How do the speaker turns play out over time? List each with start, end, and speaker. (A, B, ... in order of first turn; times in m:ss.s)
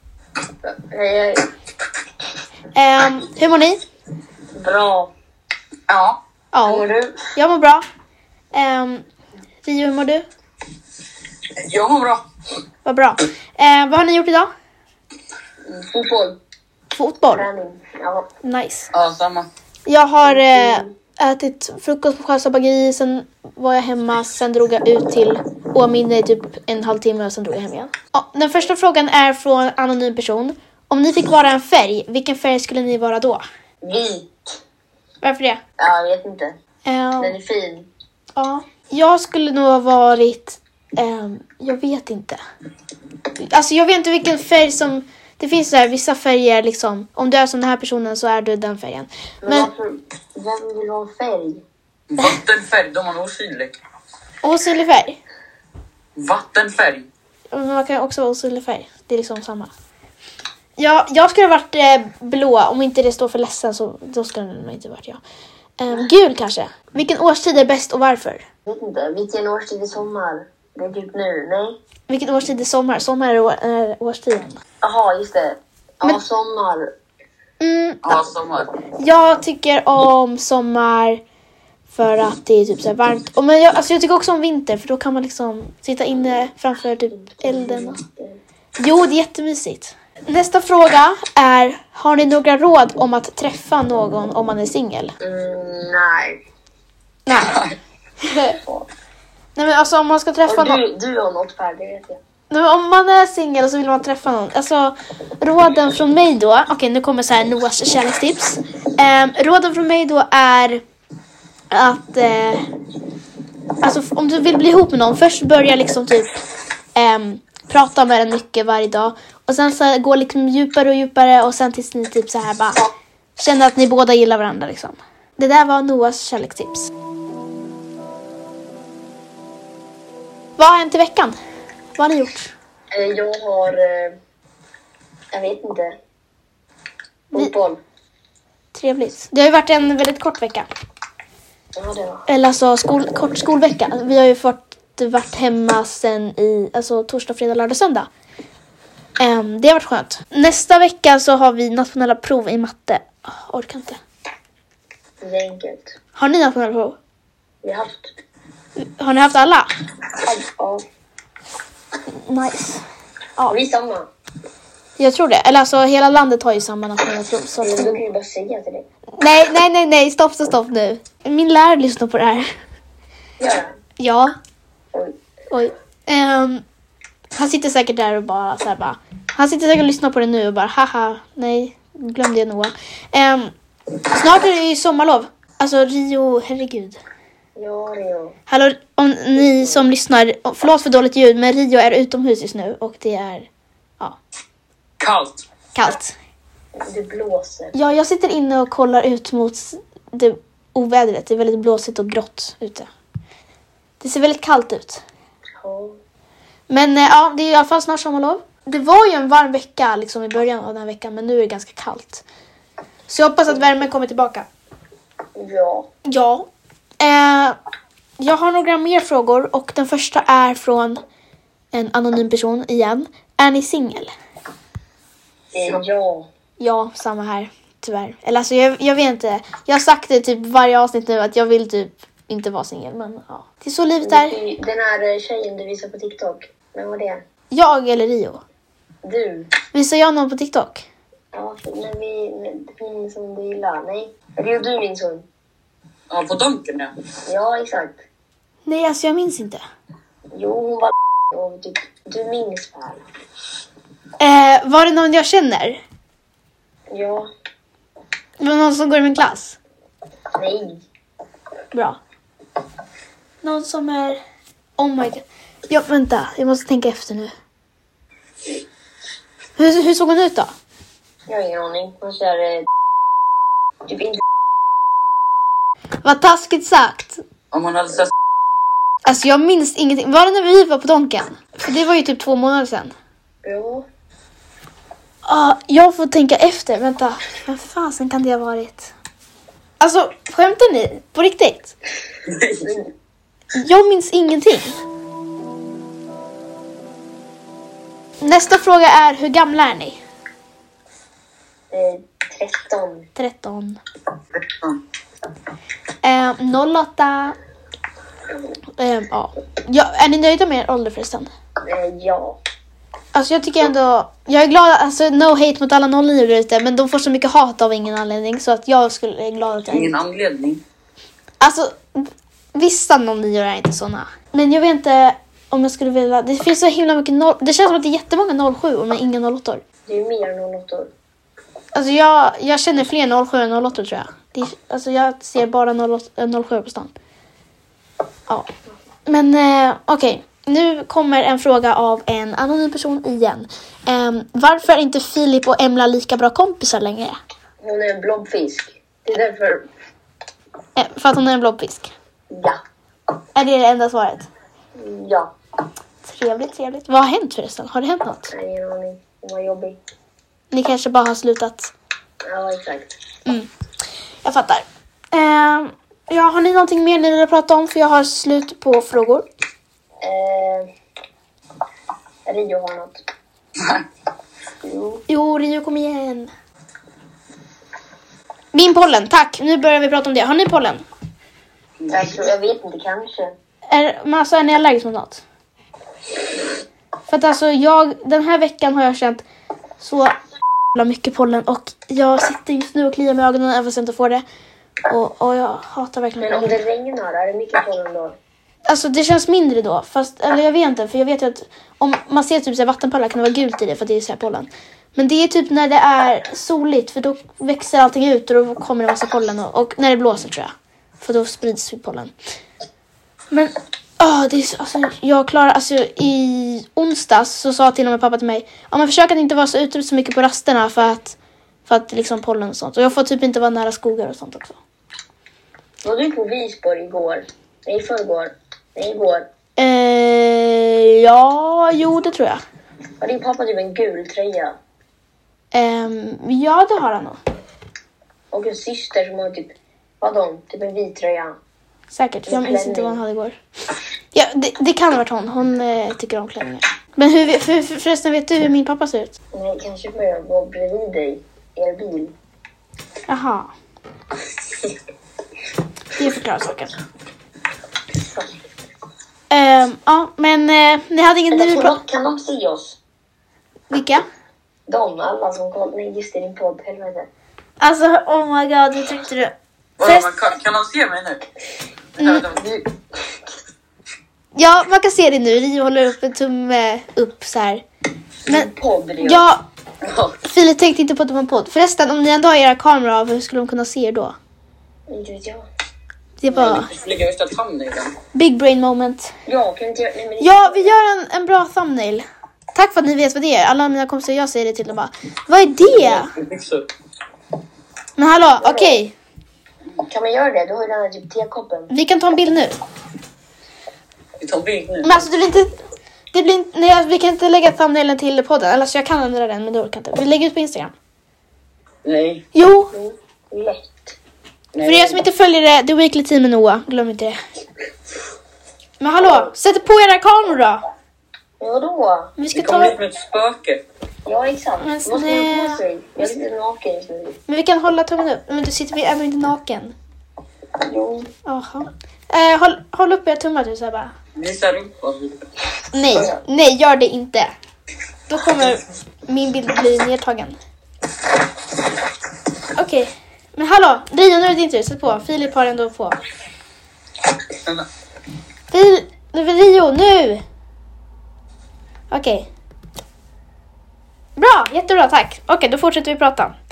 0:00.6-0:01.5 A
0:02.7-0:03.8 B
0:04.6-0:05.1 A
0:05.9-0:06.2 C
0:06.5-0:07.8 B
0:06.6-0:07.2 A
0:08.5-0:09.0 B
0:09.6-0:10.2 B
0:11.6-0:12.2 C
0:12.8-0:14.5 B
0:15.6-0:16.4 A
0:16.9-0:17.5 B
0:17.3-0:18.3 A
0:18.4-0:18.9 B
0:18.9-0:19.5 C
0:19.9-0:33.4 B
0:20.3-0:20.9 A
0:33.8-0:34.6 A
0:35.2-0:35.6 B
0:35.8-0:36.6 A
0:36.8-0:37.4 B
0:37.2-0:37.9 A
0:38.4-0:42.4 B
0:43.4-0:49.7 B
0:49.4-0:51.6 A
0:52.1-0:53.7 C
0:54.4-0:55.2 B
0:56.2-0:57.1 C
0:57.5-0:59.7 B
1:00.8-1:05.2 B
1:05.8-1:08.4 B
1:08.7-1:11.8 A
1:12.1-1:14.6 B
1:14.8-1:16.9 A
1:17.6-1:18.2 B
1:18.0-1:18.7 C
1:19.0-1:21.2 B
1:21.9-1:28.0 B
1:27.2-1:28.4 A
1:28.8-1:35.2 B
1:35.2-1:36.4 A
1:37.3-1:37.6 B
1:38.2-1:38.6 B
1:38.5-1:38.9 A
1:39.6-1:40.8 B
1:40.5-1:42.2 A
1:42.5-1:50.8 B
1:51.7-1:52.6 B
1:53.8-1:56.4 B
1:57.0-2:06.9 B
2:10.6-2:11.4 B
2:12.0-2:12.5 B
2:12.9-2:14.2 A
2:15.3-2:16.0 A
2:17.3-2:17.8 A
2:18.7-2:20.7 B
2:21.8-2:22.2 A
2:22.3-2:28.1 B
2:29.2-2:34.0 B
2:35.2-2:35.9 A
2:36.2-2:37.0 B
2:37.6-2:38.1 A
2:38.8-2:39.7 B
2:40.2-2:40.8 A
2:42.1-2:42.8 B
2:43.5-2:44.1 A
2:45.0-2:48.0 B
2:47.6-2:48.8 A
2:49.2-2:52.5 B
2:53.4-2:53.7 A
2:54.0-2:54.3 B
2:55.5-2:56.6 B
2:57.4-3:03.5 B
3:04.1-3:07.0 B
3:07.6-3:08.4 A
3:08.5-3:13.5 B
3:09.4-3:09.9 A
3:15.0-3:15.4 C
3:15.8-3:16.2 B
3:16.8-3:17.7 A
3:17.7-3:22.9 B
3:24.0-3:25.0 B
3:25.6-3:26.0 A
3:26.7-3:32.2 B
3:33.1-3:34.5 B
3:35.4-3:35.9 A
3:36.0-3:36.5 B
3:37.0-3:37.6 B
3:38.2-3:41.0 B
3:41.7-3:44.1 B
3:45.5-3:46.3 A
3:46.6-3:54.4 B
3:54.0-3:57.2 A
3:57.5-3:58.4 B
3:59.0-3:59.5 A
3:59.7-4:00.9 B
4:01.3-4:05.3 A
4:06.1-4:06.9 C
4:07.3-4:08.0 A
4:08.7-4:09.6 B
4:10.3-4:13.0 A
4:14.2-4:15.8 B
4:16.9-4:17.3 A
4:18.4-4:19.6 B
4:20.4-4:20.8 A
4:21.7-4:22.0 B
4:23.4-4:24.2 B
4:24.8-4:27.3 B
4:29.6-4:30.5 B
4:31.3-4:32.7 A
4:33.8-4:34.2 A
4:36.0-4:37.2 B
4:37.5-4:38.1 C
4:39.1-4:42.9 B
4:43.4-4:43.8 A
4:45.2-4:48.9 B
4:49.8-4:51.7 B
4:52.4-4:52.6 C
4:52.6-4:52.9 A
4:53.5-4:54.8 B
4:58.2-5:00.0 B
5:01.7-5:03.1 A
5:03.2-5:03.8 B
5:06.0-5:07.4 B
5:08.8-5:11.3 B
5:11.7-5:12.4 A
5:13.1-5:20.0 B
5:19.7-5:20.6 C
5:21.4-5:29.6 B
5:29.9-5:30.9 A
5:31.7-5:36.9 B
5:39.1-5:47.2 B
5:47.6-5:49.7 A
5:50.8-5:51.9 B
5:52.3-5:52.6 A
5:53.4-5:54.3 B
5:54.8-5:55.3 A
5:56.0-5:58.3 B
5:58.3-5:59.8 A
6:00.5-6:01.7 B
6:02.3-6:02.9 A
6:04.2-6:09.2 B
6:10.0-6:10.7 A
6:12.3-6:13.0 A
6:14.6-6:15.0 A
6:15.1-6:16.3 B
6:18.5-6:20.8 B
6:21.9-6:23.4 A
6:23.7-6:25.2 B
6:27.1-6:29.2 B
6:29.8-6:30.1 B
6:30.7-6:34.2 B
6:34.9-6:36.6 B
6:36.2-6:38.2 A
6:38.7-6:52.1 B
6:53.3-7:04.6 B
7:05.8-7:09.3 A
7:09.6-7:12.4 B
7:13.0-7:14.6 A
7:15.5-7:17.2 B
7:18.3-7:21.4 A
7:21.9-7:23.4 B
7:22.3-7:23.0 A
7:24.1-7:29.2 B
7:29.3-7:32.1 A
7:33.1-7:33.5 B
7:36.0-7:36.7 B
7:38.0-7:38.4 A
7:39.3-7:41.8 B
7:41.3-7:42.8 A
7:43.7-7:44.0 B
7:44.7-7:47.1 A
7:47.6-7:50.1 B
7:49.8-7:51.2 C
7:52.0-7:52.4 C
7:52.0-7:52.3 B
7:52.2-7:52.8 A
7:54.4-7:57.6 B
7:58.3-7:59.3 A
7:59.0-7:59.4 B
7:59.8-8:00.2 C
8:00.2-8:04.2 B
8:04.9-8:05.5 A
8:06.2-8:06.7 B
8:06.3-8:08.0 C
8:08.1-8:09.1 B
8:09.3-8:10.8 A
8:10.2-8:12.0 B
8:12.6-8:16.1 B
8:15.8-8:16.7 C
8:18.0-8:18.9 B
8:18.4-8:18.8 A
8:19.8-8:21.7 A
8:21.7-8:22.6 B
8:24.2-8:25.0 C
8:24.8-8:25.5 B
8:26.1-8:30.8 B
8:31.8-8:32.2 C
8:32.3-8:32.7 B
8:32.7-8:34.0 A
8:34.6-8:35.0 C
8:34.6-8:37.2 B
8:38.8-8:40.6 B
8:39.0-8:39.3 A
8:41.4-8:42.1 A
8:42.2-8:42.8 B
8:42.4-8:43.6 C
8:44.0-8:47.2 A
8:44.6-8:46.1 B
8:47.3-8:49.8 B
8:50.6-8:51.1 A
8:51.3-8:53.9 B
8:54.2-8:55.2 C
8:55.7-8:57.3 B
8:58.1-9:00.4 B
9:02.6-9:06.0 B
9:08.5-9:10.2 B
9:11.9-9:12.3 B
9:14.2-9:16.3 B